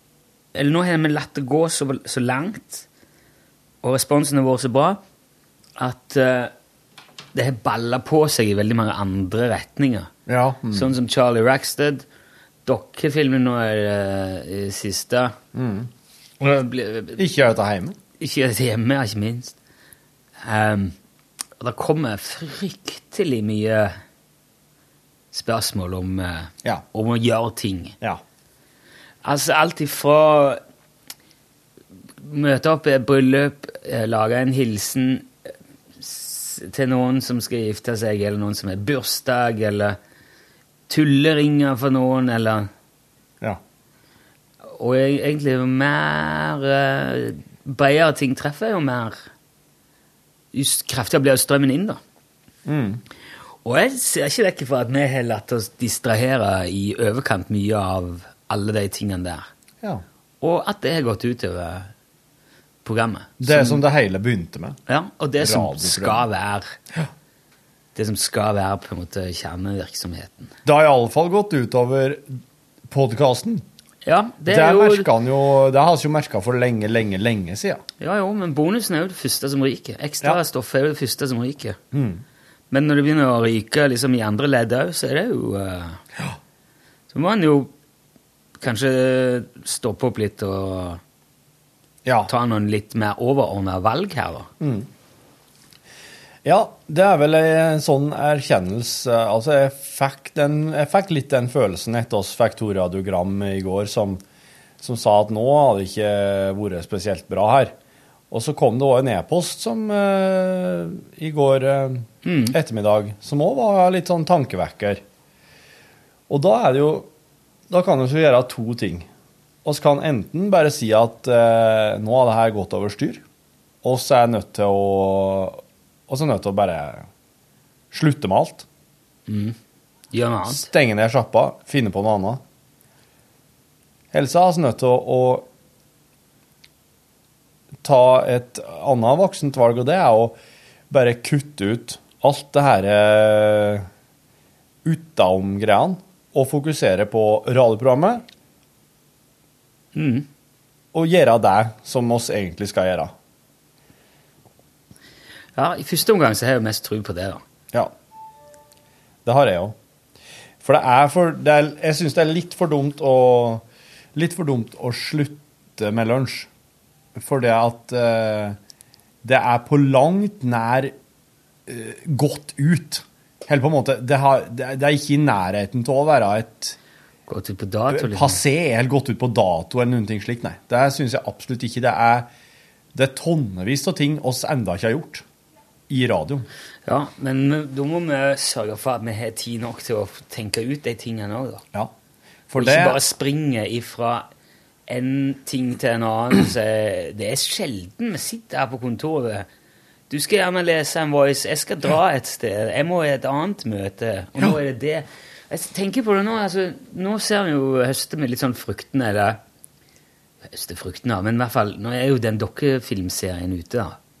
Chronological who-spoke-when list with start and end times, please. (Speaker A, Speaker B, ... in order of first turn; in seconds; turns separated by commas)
Speaker A: 0.5-2.9, Speaker A: 3.8-5.0, Speaker A: 5.8-6.5, Speaker A: 7.3-10.1, Speaker B: 10.3-10.9, Speaker A: 10.7-12.0, Speaker A: 12.6-15.3, Speaker B: 15.5-15.9, Speaker A: 16.4-17.2, Speaker B: 17.1-18.0, Speaker A: 18.2-19.6, Speaker A: 20.4-20.9, Speaker A: 21.6-24.0, Speaker A: 25.3-27.9, Speaker A: 29.2-30.6, Speaker A: 32.2-35.3, Speaker A: 36.0-40.0, Speaker A: 40.9-42.7, Speaker A: 44.6-49.2, Speaker A: 50.5-52.0, Speaker B: 52.6-53.0, Speaker A: 53.6-59.5, Speaker A: 60.4-61.9, Speaker A: 62.8-63.8, Speaker B: 63.4-64.8, Speaker A: 64.9-66.8, Speaker B: 65.4-66.2, Speaker A: 67.9-70.5, Speaker B: 70.6-73.6, Speaker A: 74.0-75.1, Speaker B: 74.5-77.8, Speaker A: 78.0-81.8, Speaker B: 81.9-82.2, Speaker A: 82.7-86.0, Speaker A: 87.1-87.7, Speaker A: 88.6-91.0, Speaker B: 92.0-92.3, Speaker A: 92.3-94.5, Speaker B: 94.6-94.9, Speaker B: 96.4-104.2, Speaker B: 104.8-107.7, Speaker B: 108.3-115.0, Speaker A: 112.2-112.5, Speaker B: 116.3-117.1, Speaker B: 117.7-119.1, Speaker B: 119.6-123.2, Speaker B: 123.8-127.1, Speaker B: 127.9-128.7, Speaker A: 129.3-129.6, Speaker A: 130.1-130.7, Speaker B: 130.4-132.4, Speaker B: 134.1-135.5, Speaker B: 137.8-140.4, Speaker B: 140.9-143.9, Speaker B: 144.8-148.2, Speaker A: 149.9-150.3, Speaker B: 150.9-153.1, Speaker A: 155.6-157.4, Speaker B: 159.2-159.8, Speaker B: 160.6-166.5, Speaker B: 167.1-168.6, Speaker B: 169.2-170.9, Speaker B: 171.7-176.8, Speaker A: 177.3-178.4, Speaker B: 177.9-182.3, Speaker B: 182.9-185.2, Speaker B: 185.9-186.5, Speaker A: 186.8-191.6, Speaker B: 192.5-193.0, Speaker A: 192.6-194.2, Speaker A: 194.9-199.5, Speaker A: 200.1-209.4, Speaker A: 210.5-214.0